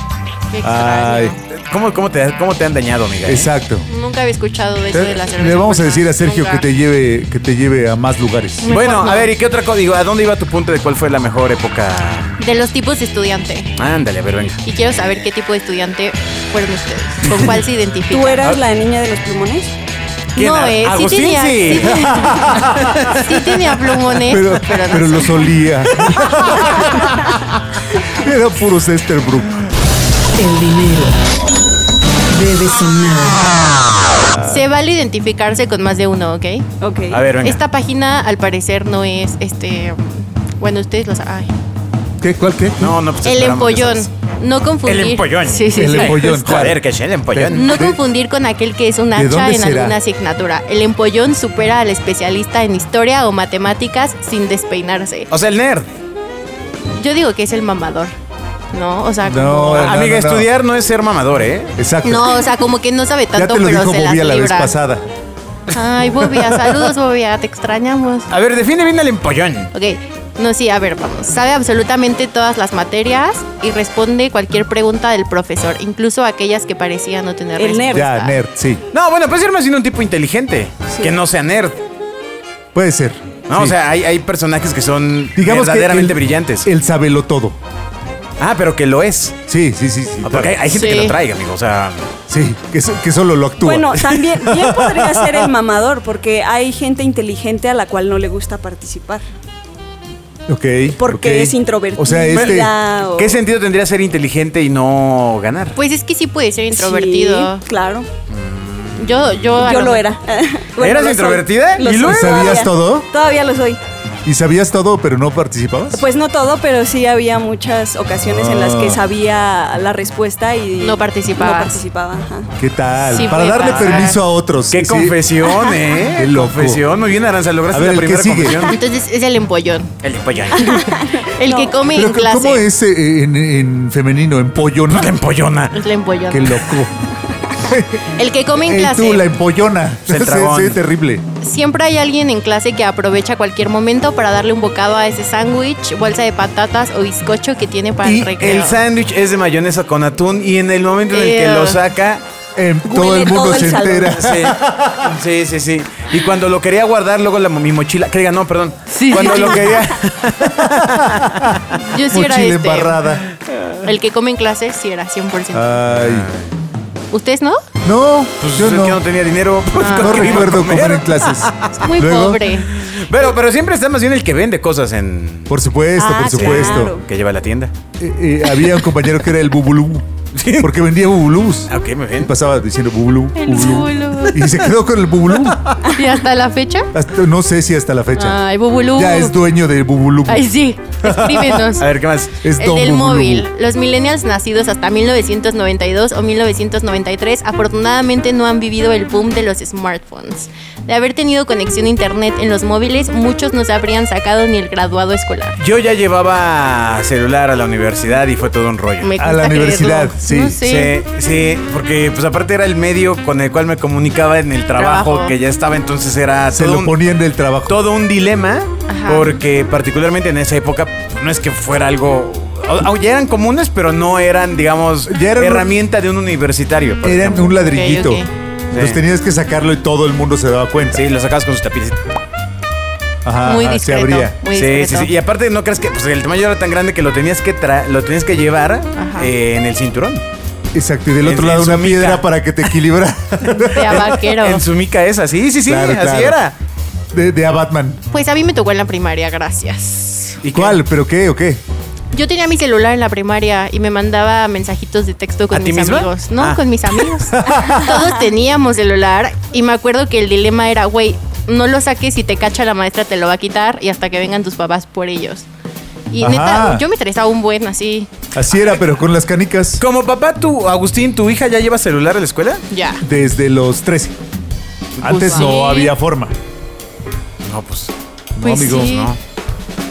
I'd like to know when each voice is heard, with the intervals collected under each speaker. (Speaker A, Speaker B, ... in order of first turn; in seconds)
Speaker A: 0.5-1.4, 3.9-6.6, 8.6-9.3, 12.4-13.7, 14.6-18.5, 20.3-25.5, 34.4-36.6, 37.4-41.5, 43.2-46.5, 47.5-55.3, 56.9-58.1, 58.7-60.0, 62.0-64.7, 65.7-68.3, 69.7-78.4, 90.7-91.2, 105.7-107.6, 109.0-110.1, 120.8-121.8, 123.1-124.2, 128.7-129.9, 130.5-132.7, 135.7-136.6, 138.2-139.2, 141.4-148.8, 151.1-151.8, 158.9-159.7, 161.8-163.0, 163.8-165.7, 167.1-167.6, 169.8-170.4, 171.7-172.7, 183.3-184.5, 185.9-186.9, 188.2-189.3, 190.3-191.9, 192.6-205.6, 209.0-210.9, 214.8-215.3, 218.9-219.4, 227.7-228.3, 233.4-235.1, 238.9-239.3, 243.7-244.6, 248.1-250.4, 252.1-265.4, 266.1-268.1, 272.7-273.0, 275.0-275.9, 278.4-279.1
Speaker B: 0.6-1.4, 3.2-3.9, 4.9-8.7, 22.0-23.1, 24.3-29.6, 42.2-42.9, 45.7-46.8, 47.3-48.0, 49.1-50.0, 59.2-60.5, 61.8-62.4, 63.3-65.0, 77.9-78.8, 82.7-83.7, 85.3-87.6, 89.5-90.6, 92.3-95.5, 100.5-102.7, 112.0-113.1, 114.2-116.0, 118.3-119.0, 122.6-125.2, 126.2-126.8, 127.7-128.7, 131.9-135.2, 136.3-136.9, 137.6-141.2, 148.0-148.5, 152.6-155.2, 159.2-159.8, 160.5-163.2, 165.5-166.3, 167.8-169.0, 169.8-172.4, 175.5-176.9, 178.0-180.1, 180.6-185.6, 186.9-188.4, 188.9-190.5, 191.0-191.7, 192.4-193.5, 209.2-210.6, 216.5-217.8, 225.1-225.7, 227.0-231.0, 233.2-234.4, 240.7-244.2, 245.7-246.4, 247.1-248.0, 250.5-251.6, 257.3-258.1, 266.2-266.8, 268.3-269.8, 273.0-274.1, 275.0-276.3, 278.4-278.9
Speaker C: 1.5-3.5, 8.7-12.4, 13.8-15.2, 20.4-23.2, 37.1-37.6, 42.8-44.1, 44.8-47.7, 55.3-55.9, 59.7-61.7, 68.3-69.7, 78.9-81.8, 83.5-86.7, 88.4-89.4, 90.2-92.1, 102.3-105.8, 108.3-109.3, 110.8-112.7, 123.4-124.1, 124.7-128.8, 130.0-130.9, 134.9-135.8, 140.1-140.8, 148.4-152.2, 154.1-161.8, 163.3-163.8, 165.9-166.5, 168.4-171.7, 172.7-175.5, 176.2-177.7, 180.3-180.8, 181.7-182.3, 185.4-185.8, 191.8-192.4, 205.6-209.1, 210.6-216.9, 217.7-227.6, 228.7-229.0, 230.8-232.0, 234.5-240.2, 241.2-242.7, 243.9-246.5, 250.4-250.8, 255.5-257.1, 269.8-272.6, 275.0-275.5, 277.4-277.9, 278.6-279.2
Speaker D: 18.1-19.7, 36.8-37.2, 77.6-78.0, 93.6-99.2, 101.0-103.4, 106.7-108.1, 109.5-113.8, 115.9-122.5, 130.6-131.8, 152.8-154.2, 175.9-177.0
Speaker E: 30.4-31.2, 32.3-33.8